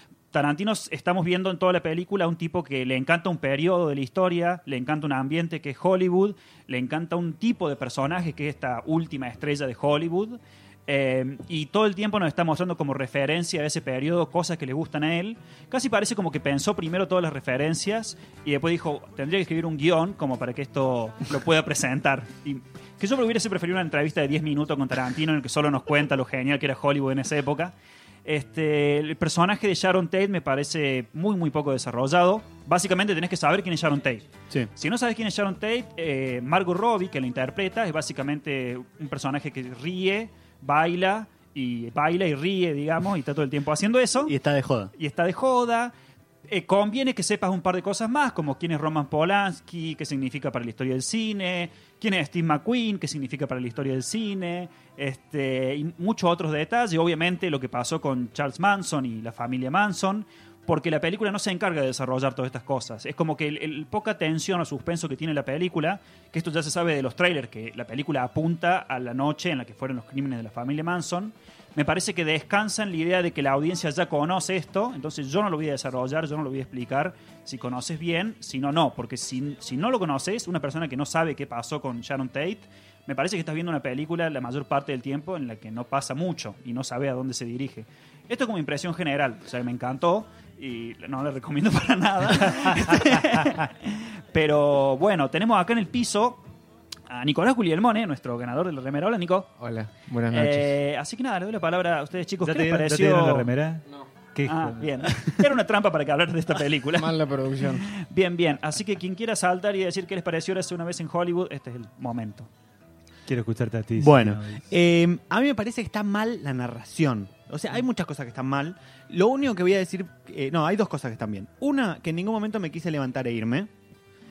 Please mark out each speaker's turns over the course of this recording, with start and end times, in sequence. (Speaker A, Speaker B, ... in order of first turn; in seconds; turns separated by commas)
Speaker A: 0.3-27.7, Speaker A: 28.2-34.2, Speaker A: 34.8-44.4, Speaker B: 44.2-44.9, Speaker A: 45.0-45.9, Speaker A: 46.5-96.4, Speaker A: 97.1-99.5, Speaker C: 99.6-100.8, Speaker A: 100.3-103.5, Speaker D: 102.4-104.9, Speaker A: 104.5-112.5, Speaker C: 106.9-107.9, Speaker D: 113.3-114.7, Speaker B: 114.0-123.7